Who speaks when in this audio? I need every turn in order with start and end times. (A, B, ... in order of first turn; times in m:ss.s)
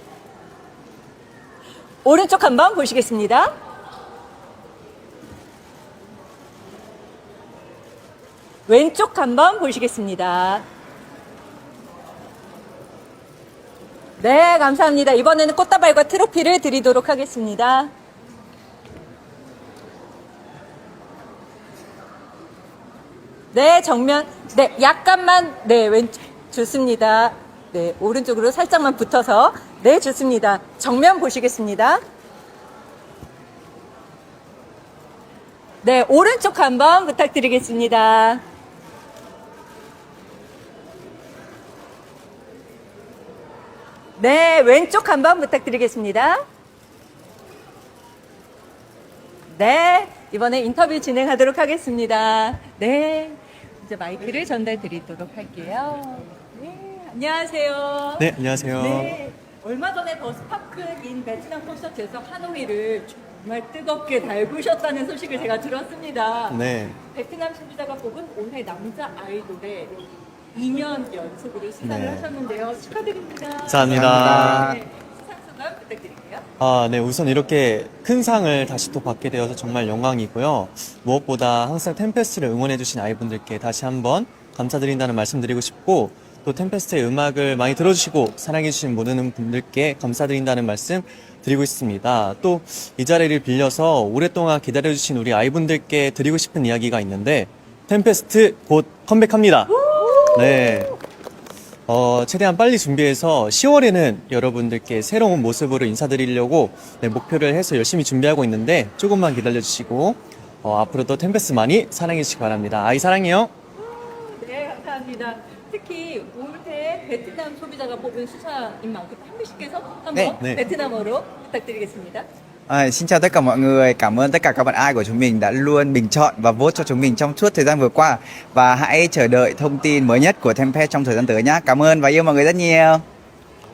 0:02.0-0:03.5 A
0:08.7-0:10.6 A
0:14.2-0:17.9 A
0:23.5-0:32.0 A
0:35.8-0:38.4 A
0:44.2-0:46.4 A
0:49.5-1:16.4 A
0:58.2-0:59.2 B
1:06.5-1:07.0 B
1:11.8-1:12.3 B
1:13.7-1:14.8 B
1:13.9-1:14.8 C
1:16.6-1:39.8 B
1:39.7-1:40.9 A
1:40.3-1:41.0 B
1:41.9-1:53.5 B
1:53.8-2:02.2 A
2:02.7-2:13.0 C